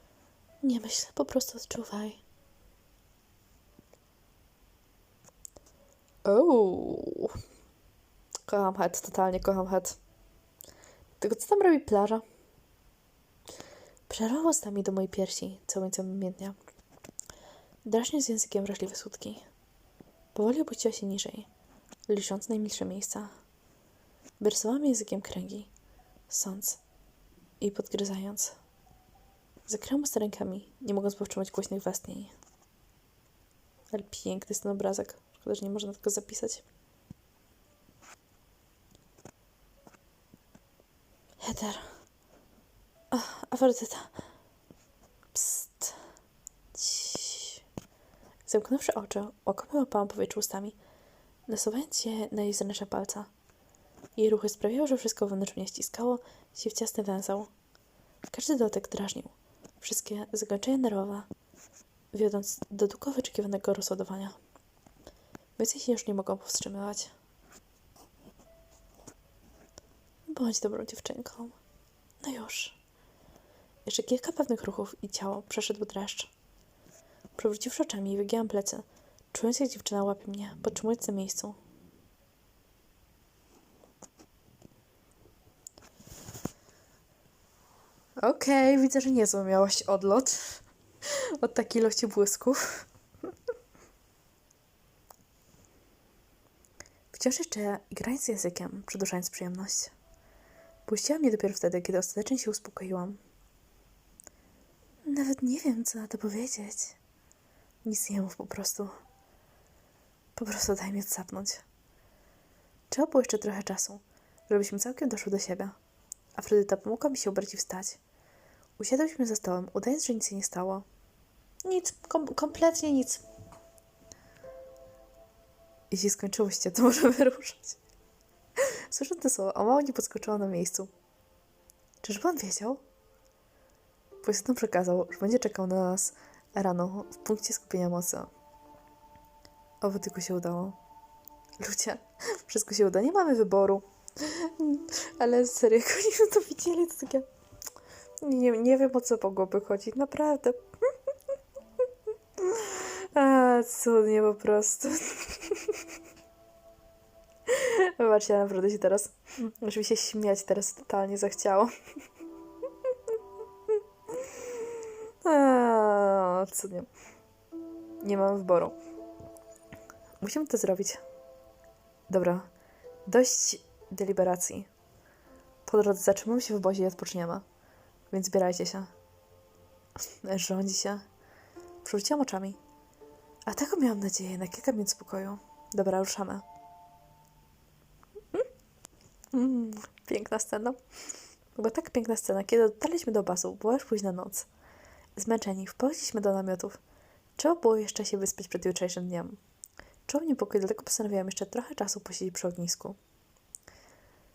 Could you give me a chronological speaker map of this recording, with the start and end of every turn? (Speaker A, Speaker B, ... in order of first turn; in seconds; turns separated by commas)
Speaker A: 0.6-2.2, Speaker A: 6.2-7.4, Speaker A: 8.5-10.0, Speaker A: 11.2-12.2, Speaker A: 14.1-16.6, Speaker A: 17.9-19.5, Speaker A: 20.4-21.5, Speaker A: 22.1-23.3, Speaker A: 24.4-25.7, Speaker A: 26.3-26.8, Speaker A: 27.6-28.6, Speaker A: 29.6-32.3, Speaker A: 33.9-36.6, Speaker A: 41.4-42.0, Speaker A: 43.1-44.2, Speaker A: 45.3-46.0, Speaker A: 46.7-47.6, Speaker A: 48.5-50.8, Speaker A: 51.5-53.3, Speaker A: 54.2-57.5, Speaker A: 58.3-61.3, Speaker A: 62.1-64.4, Speaker A: 65.6-67.1, Speaker A: 70.3-71.6, Speaker A: 72.2-72.8, Speaker A: 73.9-76.3, Speaker A: 77.4-81.6, Speaker A: 88.2-92.8, Speaker A: 97.1-99.9, Speaker A: 100.9-103.2, Speaker A: 105.0-107.0, Speaker A: 107.8-108.9, Speaker A: 110.4-111.6, Speaker A: 112.9-115.8, Speaker A: 116.3-118.0, Speaker A: 118.8-120.8, Speaker A: 121.6-123.2, Speaker A: 125.9-127.8, Speaker A: 128.6-130.9, Speaker A: 132.0-132.8, Speaker A: 134.2-138.3, Speaker A: 139.8-140.8, Speaker A: 141.6-147.3, Speaker A: 148.2-150.6, Speaker A: 152.4-155.8, Speaker A: 157.5-161.7, Speaker A: 164.1-166.9, Speaker A: 168.0-168.8, Speaker A: 170.2-171.0, Speaker A: 172.1-172.5, Speaker A: 173.1-174.7, Speaker A: 175.7-177.4, Speaker A: 178.1-178.9, Speaker A: 180.2-181.1, Speaker A: 181.8-182.6, Speaker A: 183.5-186.4, Speaker A: 189.3-190.8, Speaker A: 191.6-194.5, Speaker A: 195.2-196.8, Speaker A: 197.4-199.4, Speaker A: 200.1-203.0